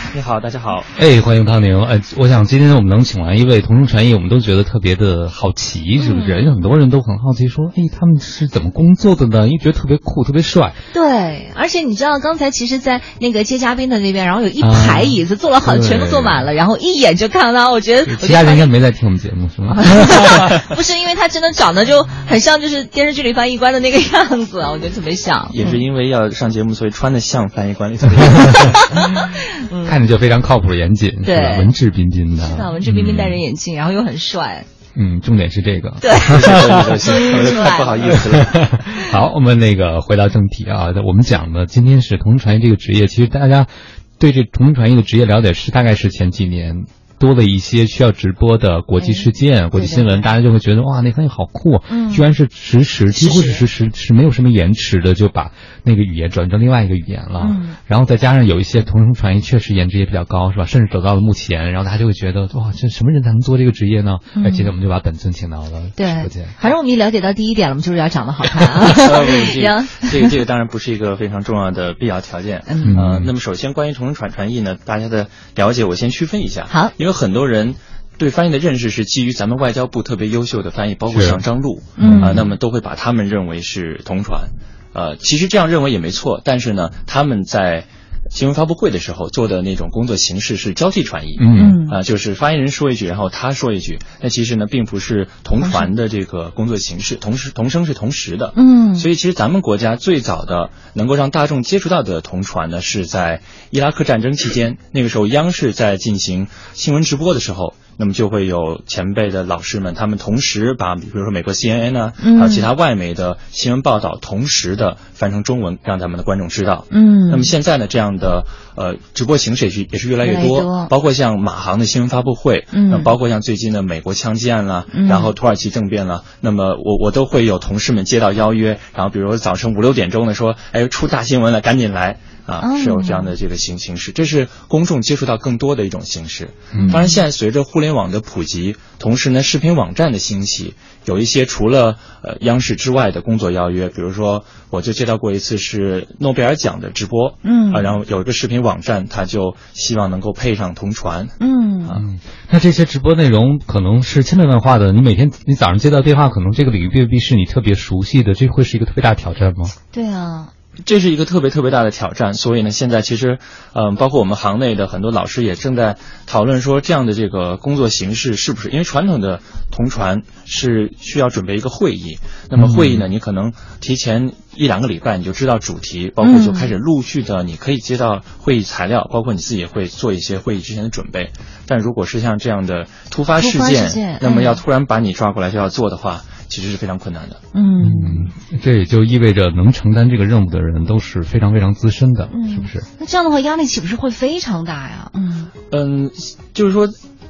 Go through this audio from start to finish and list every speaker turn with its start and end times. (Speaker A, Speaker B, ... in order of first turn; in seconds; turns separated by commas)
Speaker A: 0.1-0.9, Speaker B: 1.0-10.8, Speaker C: 6.0-6.5, Speaker C: 10.9-18.6, Speaker B: 14.6-16.5, Speaker B: 18.1-20.5, Speaker C: 19.7-25.7, Speaker A: 25.5-29.1, Speaker B: 28.3-28.7, Speaker C: 28.6-30.0, Speaker B: 29.9-33.4, Speaker C: 31.2-31.8, Speaker C: 32.4-34.7, Speaker B: 35.0-37.0, Speaker C: 36.0-38.2, Speaker A: 36.2-38.7, Speaker B: 38.1-43.7, Speaker C: 38.9-39.1, Speaker B: 44.2-66.6, Speaker C: 49.0-50.2, Speaker C: 51.9-52.3, Speaker C: 53.1-53.6, Speaker C: 57.4-57.8, Speaker C: 64.4-64.7, Speaker C: 66.0-70.3, Speaker A: 69.0-152.0, Speaker C: 72.7-73.0, Speaker B: 72.8-73.3, Speaker B: 81.1-81.4, Speaker C: 82.0-82.4, Speaker B: 82.0-82.5, Speaker B: 91.4-91.8, Speaker C: 91.5-92.0, Speaker C: 95.6-95.9, Speaker C: 98.6-99.1, Speaker C: 112.2-112.7, Speaker C: 116.9-117.5, Speaker C: 120.2-120.9, Speaker C: 122.7-123.1, Speaker C: 124.9-125.3, Speaker C: 132.6-133.4, Speaker B: 136.7-137.0, Speaker C: 136.8-137.2, Speaker C: 147.4-147.9, Speaker C: 151.4-152.0, Speaker B: 152.0-159.7, Speaker C: 159.9-160.5, Speaker A: 160.8-187.4, Speaker B: 172.6-173.1, Speaker C: 176.2-176.7, Speaker C: 183.4-184.6, Speaker C: 187.5-188.3, Speaker B: 187.8-192.9, Speaker C: 192.3-195.5, Speaker A: 195.7-196.9